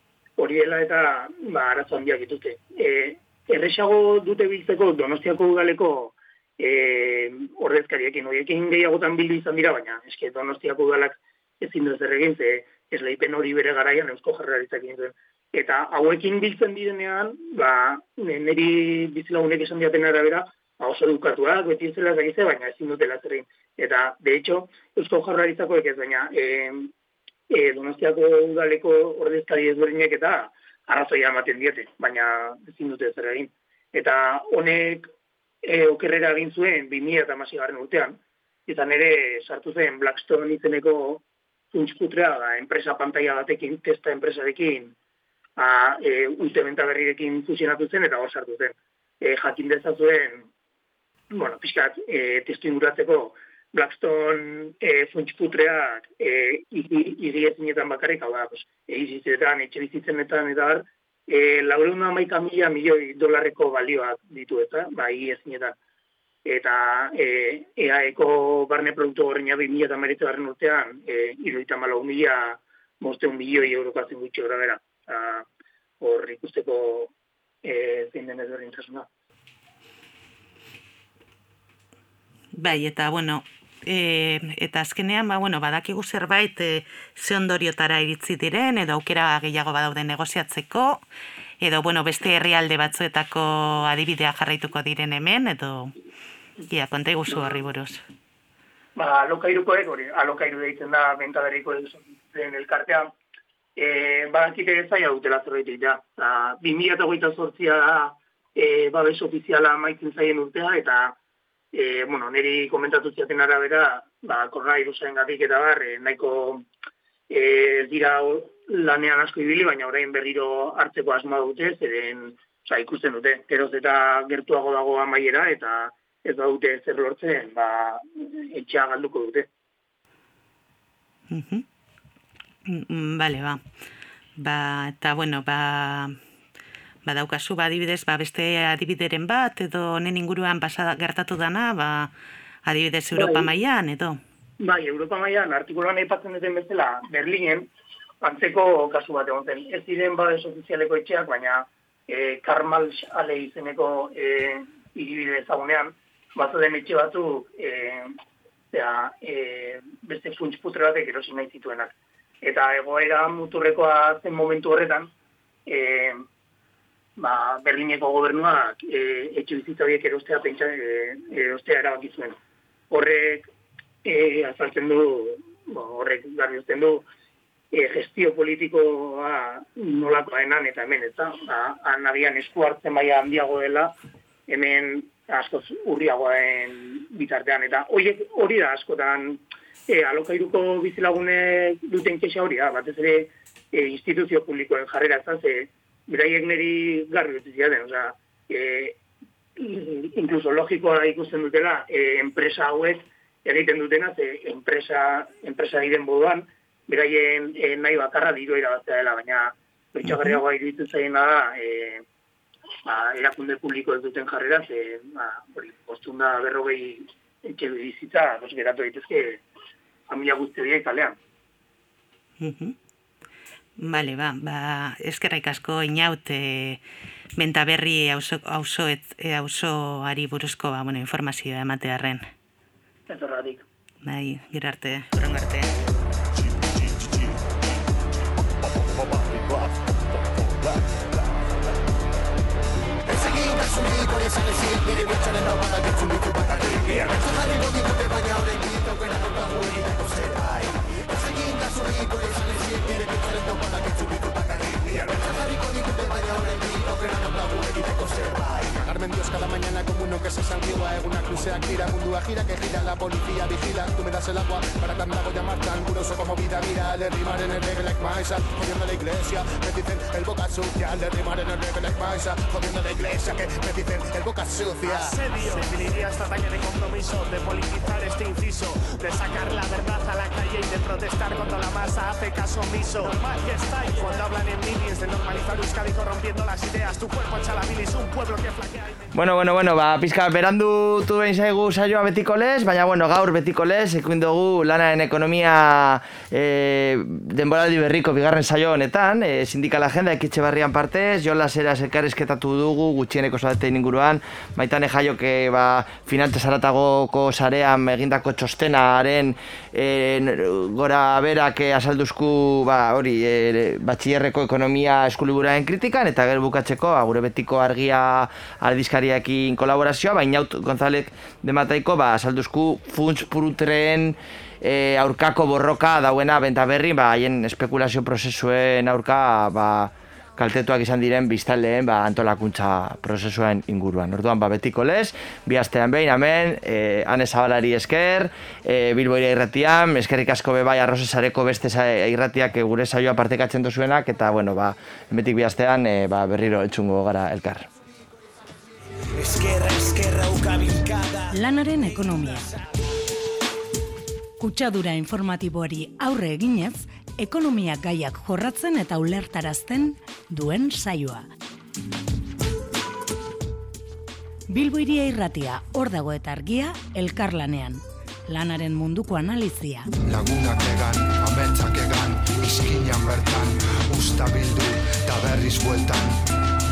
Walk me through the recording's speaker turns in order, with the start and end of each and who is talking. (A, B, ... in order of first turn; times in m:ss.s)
0:00.4-0:26.9 A
0:27.5-0:35.1 A
0:35.6-0:44.9 A
0:45.6-0:50.5 A
0:51.3-1:05.8 A
1:06.4-1:15.5 A
1:16.0-1:17.1 A
1:17.6-1:19.1 A
1:22.5-1:31.0 B
1:31.6-1:36.0 B
1:36.7-1:38.0 B
1:39.0-1:43.1 A
1:43.8-1:51.2 A
1:51.7-1:56.7 A
1:57.3-2:09.5 A
2:11.3-2:11.7 B
2:12.7-2:13.6 B
2:14.4-2:16.2 B
2:17.1-2:22.1 B
2:22.6-2:24.2 B
2:23.2-2:23.5 A
2:24.6-2:27.7 A
2:28.2-2:38.2 A
2:38.7-2:45.1 A
2:45.7-2:46.2 A
2:47.2-2:52.4 A
2:52.9-2:53.5 A
2:54.0-2:57.1 A
2:57.7-3:03.9 A
3:04.5-3:19.0 A
3:19.6-3:32.0 A
3:30.1-3:30.4 B
3:32.8-3:39.4 A
3:40.1-3:41.2 A
3:42.4-3:42.8 B
3:43.8-3:46.8 B
3:47.4-3:52.3 B
3:53.1-3:53.7 A
3:54.0-3:55.7 B
3:59.1-3:59.7 C
4:03.1-4:35.2 C
4:34.8-4:49.0 D
4:49.1-5:47.7 E
5:49.1-5:52.6 F
5:51.3-5:52.5 G
5:54.4-6:01.2 G
6:04.5-6:09.9 G
6:10.1-6:16.2 H